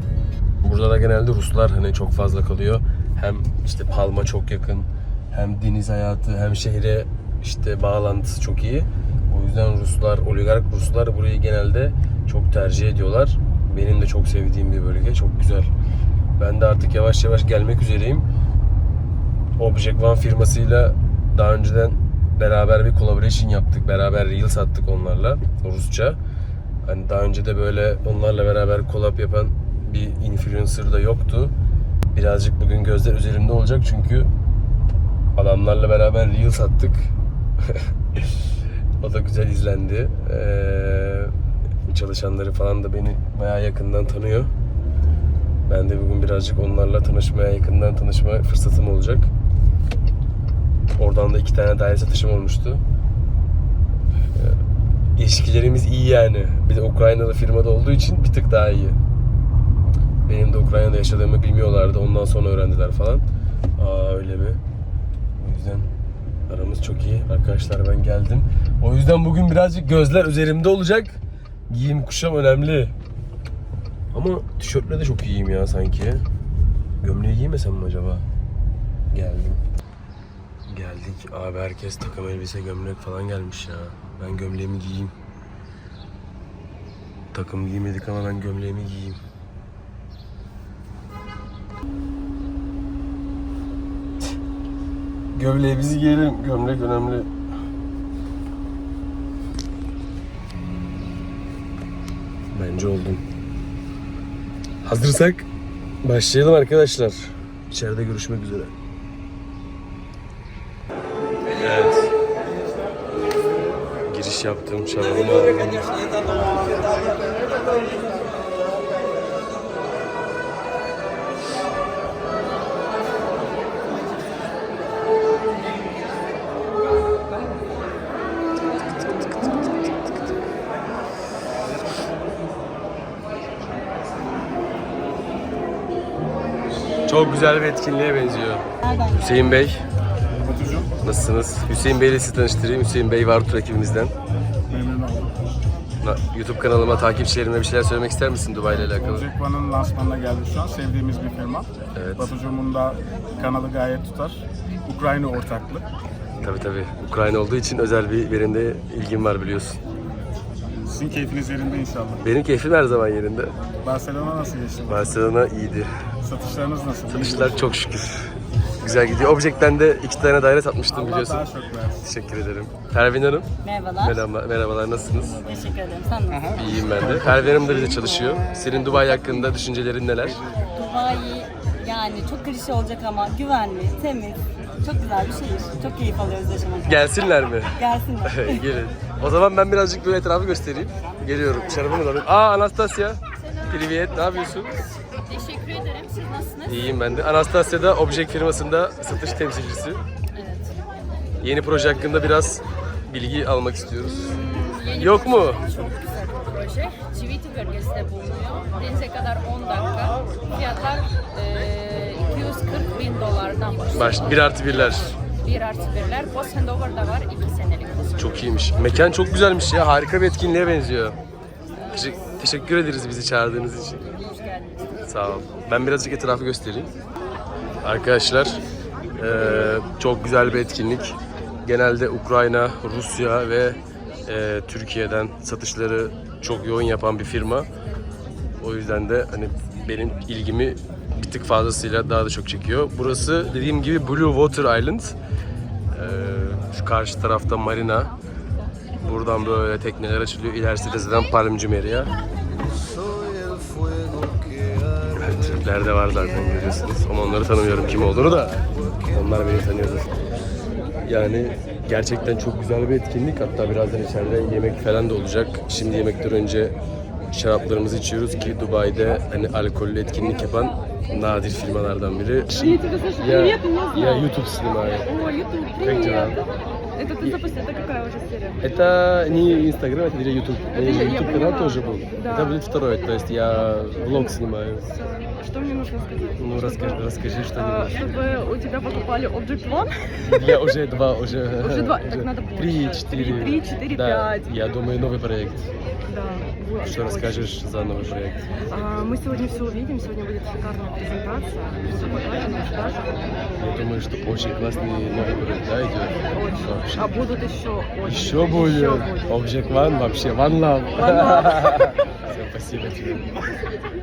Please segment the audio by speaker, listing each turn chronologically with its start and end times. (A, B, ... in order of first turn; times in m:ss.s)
0:00.6-0:15.7 A
0:16.4-0:18.3 A
0:19.6-0:26.2 A
0:26.8-0:31.5 A
0:32.1-0:34.3 A
0:35.4-0:37.1 A
0:39.0-0:41.3 A
0:41.9-0:44.5 A
0:45.7-0:49.3 A
0:51.0-0:52.8 A
0:55.2-0:59.0 A
1:00.2-1:03.2 A
1:03.8-1:04.6 A
1:05.4-1:05.9 A
1:06.5-1:12.9 A
1:14.1-1:16.2 A
1:17.0-1:18.2 A
1:19.1-1:19.6 A
1:20.7-1:25.1 A
1:27.3-1:29.2 A
1:35.3-1:37.3 A
1:42.5-1:43.2 A
1:44.8-1:45.4 A
1:46.0-1:48.7 A
1:51.6-1:52.1 A
1:54.0-1:56.1 A
2:17.1-2:19.8 A
2:18.8-2:19.6 B
2:20.4-2:20.9 C
2:21.0-2:24.1 A
2:24.7-2:25.4 C
2:26.0-2:29.3 A
2:28.7-2:35.8 C
2:32.0-2:32.3 A
2:36.4-2:39.8 A
2:40.8-2:42.2 C
2:42.2-2:43.5 A
2:43.8-2:45.2 C
2:44.9-2:45.9 A
2:46.2-2:47.7 C
2:47.1-2:48.3 A
2:48.8-2:51.4 A
2:50.9-2:52.0 C
2:52.0-2:55.4 A
2:53.6-2:54.2 B
2:55.4-2:57.0 B
2:56.3-2:58.4 C
2:56.5-3:00.4 A
3:00.7-3:07.1 B
3:06.8-3:14.8 A
3:07.8-3:08.6 B
3:15.2-3:17.1 D
3:16.7-3:20.0 A
3:20.3-3:20.7 D
3:21.4-3:24.4 A
3:24.0-3:38.3 D
3:24.9-3:25.6 A
3:33.9-3:35.1 A
3:38.2-3:41.2 A
3:41.9-3:44.0 A
3:44.2-3:44.8 D
3:45.0-3:46.9 A
3:47.8-3:48.6 A
3:49.2-3:57.7 A
3:58.6-4:05.2 A
4:05.9-4:08.1 A
4:09.0-4:12.1 A
4:15.2-4:20.1 A
4:21.0-4:26.8 A
4:27.3-4:35.1 A
4:32.6-4:34.3 E
4:35.0-4:38.6 E
4:35.8-4:36.4 A
4:38.6-4:44.9 A
4:40.7-4:42.6 E
4:44.9-4:50.4 E
4:46.4-4:48.1 A
4:50.2-4:55.7 A
4:51.6-4:54.5 E
4:56.1-4:57.5 E
4:56.8-4:58.4 A
4:58.6-5:03.2 E
5:01.8-5:02.2 A
5:03.6-5:07.0 A
5:06.3-5:09.4 E
5:08.0-5:13.3 A
5:11.0-5:11.8 E